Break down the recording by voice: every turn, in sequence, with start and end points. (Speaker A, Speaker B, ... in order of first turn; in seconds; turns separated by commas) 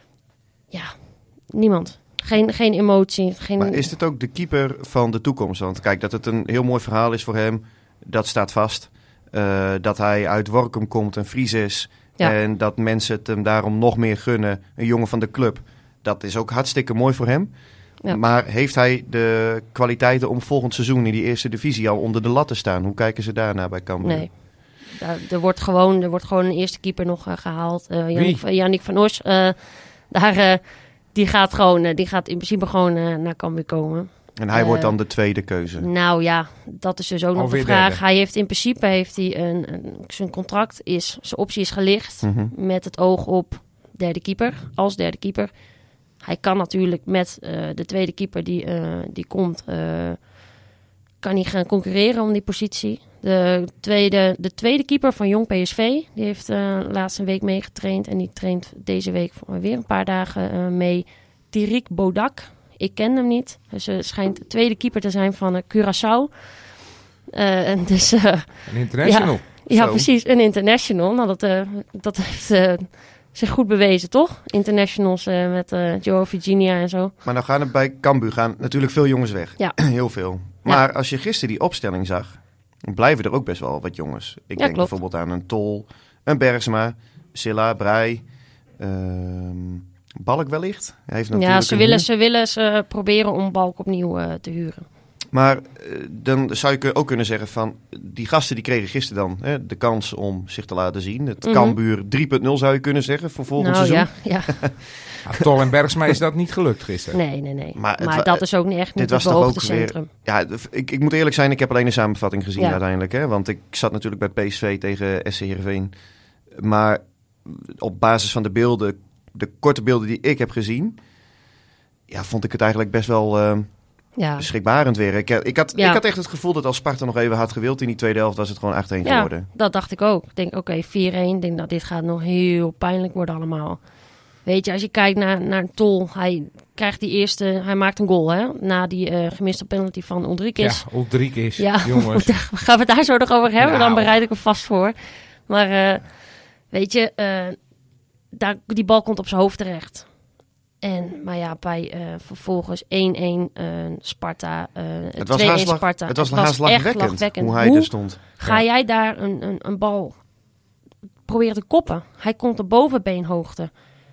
Speaker A: 0.7-3.8, Speaker B: 3.6-17.5, Speaker B: 18.1-24.3, Speaker A: 24.0-34.9, Speaker C: 28.1-28.4, Speaker B: 34.4-35.9, Speaker A: 35.8-45.5, Speaker C: 37.3-38.0, Speaker B: 42.2-42.5, Speaker A: 46.2-50.3, Speaker A: 51.2-66.7, Speaker A: 67.3-77.1, Speaker C: 68.7-69.5, Speaker B: 69.7-70.1, Speaker B: 77.2-88.2, Speaker A: 84.6-84.9, Speaker B: 88.8-92.0, Speaker A: 91.3-94.8, Speaker B: 95.3-104.7, Speaker A: 101.4-101.8, Speaker A: 103.6-104.9, Speaker C: 105.2-107.2, Speaker A: 107.1-110.1, Speaker B: 107.8-108.4, Speaker B: 109.0-115.9, Speaker B: 116.5-121.0, Speaker B: 122.1-123.7, Speaker A: 124.2-124.5, Speaker B: 124.3-129.5, Speaker A: 129.0-133.8, Speaker A: 134.4-141.0, Speaker C: 140.6-142.3, Speaker A: 141.6-146.1, Speaker C: 143.6-144.1, Speaker A: 146.7-147.6, Speaker A: 148.3-150.1, Speaker A: 150.8-160.2, Speaker B: 155.2-158.2, Speaker A: 161.2-163.7